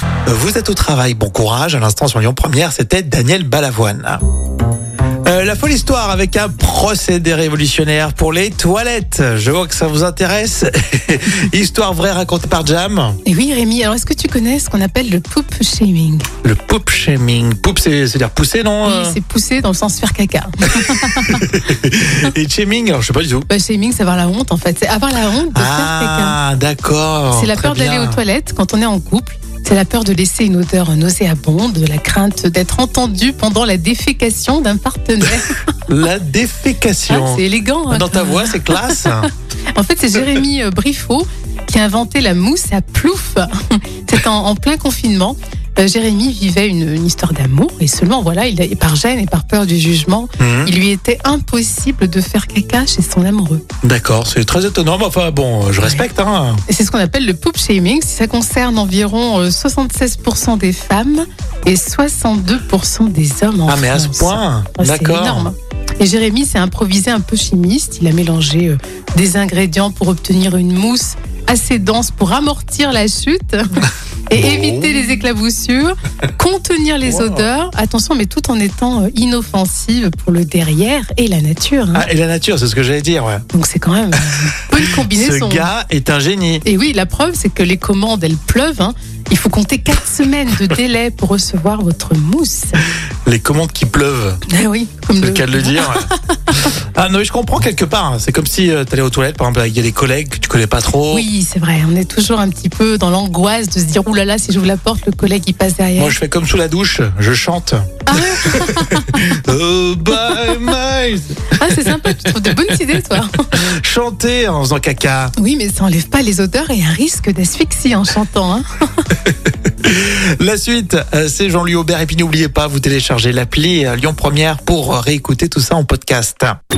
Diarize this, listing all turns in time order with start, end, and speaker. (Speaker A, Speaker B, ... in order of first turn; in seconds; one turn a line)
Speaker A: 0.2-4.2
Speaker A: 5.2-13.2
Speaker B: 13.2-16.3
Speaker A: 16.4-19.2
Speaker B: 18.8-21.4
Speaker A: 20.7-23.5
Speaker B: 23.5-26.4
Speaker A: 25.5-28.2
Speaker B: 27.3-35.6
Speaker A: 35.9-39.3
Speaker B: 37.1-53.6
Speaker A: 50.4-50.7
Speaker A: 53.8-56.6
Speaker B: 56.7-82.1
Speaker A: 63.7-65.5
Speaker A: 74.3-75.1
Speaker A: 77.0-77.5
Speaker A: 81.9-83.4
Speaker B: 83.5-85.7
Speaker A: 84.8-86.6
Speaker B: 86.6-92.8
Speaker A: 93.2-94.4
Speaker B: 94.5-96.2
Speaker A: 95.2-101.3
Speaker B: 101.1-106.2
Speaker A: 106.0-112.1
Speaker B: 108.1-109.3
Speaker B: 110.2-110.6
Speaker B: 111.5-113.3
Speaker A: 113.5-115.3
Speaker B: 115.3-119.0
Speaker A: 119.2-126.6